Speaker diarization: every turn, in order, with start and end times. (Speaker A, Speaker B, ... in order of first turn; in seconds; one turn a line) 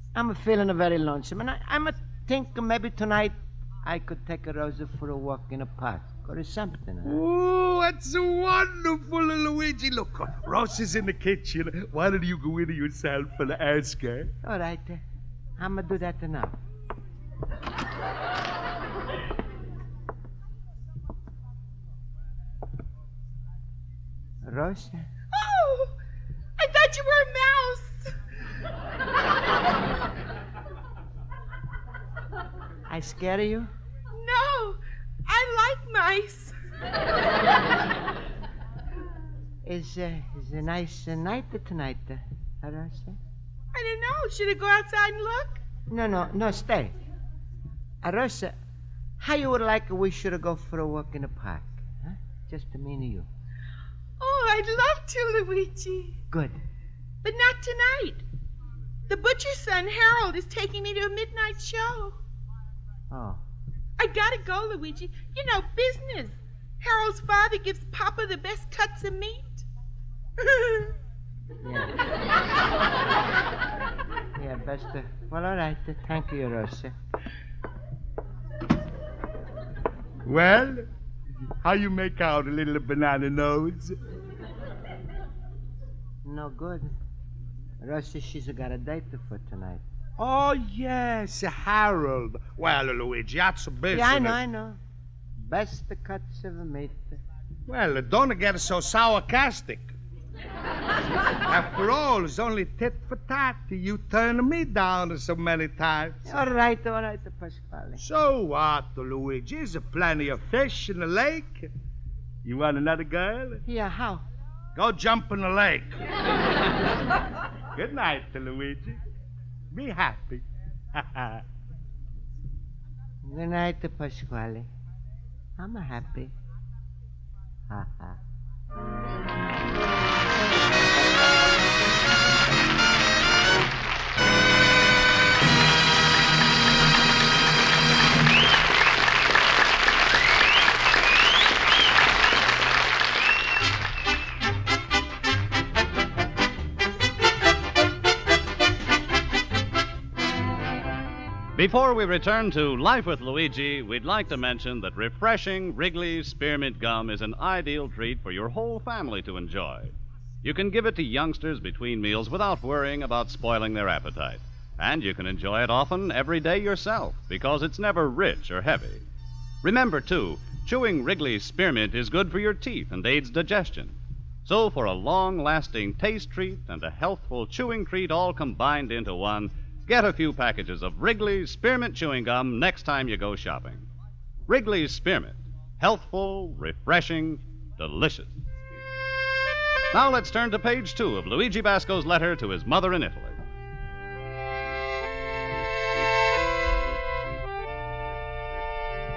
Speaker A: 0.1-7.2
Speaker B: 7.0-14.3
Speaker A: 14.4-15.0
Speaker A: 15.6-16.6
Speaker A: 24.4-25.1
Speaker C: 25.3-25.9
Speaker C: 26.6-28.1
Speaker A: 32.9-33.7
Speaker C: 34.1-36.5
Speaker A: 39.6-43.2
Speaker C: 43.7-45.6
Speaker A: 45.9-46.9
Speaker A: 48.0-48.5
Speaker A: 49.2-53.3
Speaker C: 54.2-56.2
Speaker A: 56.3-56.6
Speaker C: 57.2-58.2
Speaker C: 59.1-62.1
Speaker A: 63.1-63.4
Speaker C: 64.0-69.6
Speaker C: 70.4-70.9
Speaker A: 71.6-71.9
Speaker A: 74.3-76.9
Speaker B: 80.2-80.8
Speaker B: 81.6-83.9
Speaker A: 86.2-86.9
Speaker A: 87.8-89.8
Speaker B: 90.2-94.4
Speaker A: 93.9-94.8
Speaker A: 95.4-97.2
Speaker B: 97.7-99.9
Speaker B: 101.5-106.2
Speaker A: 106.2-108.0
Speaker B: 108.0-111.7
Speaker B: 112.4-113.6
Speaker A: 113.6-114.2
Speaker B: 114.7-116.0
Speaker B: 117.8-119.0
Speaker B: 119.7-121.4
Speaker A: 123.2-124.7
Speaker A: 125.6-126.3
Speaker A: 127.7-128.2
Speaker D: 151.5-169.0
Speaker D: 169.6-183.8
Speaker D: 184.5-188.4
Speaker D: 189.9-193.4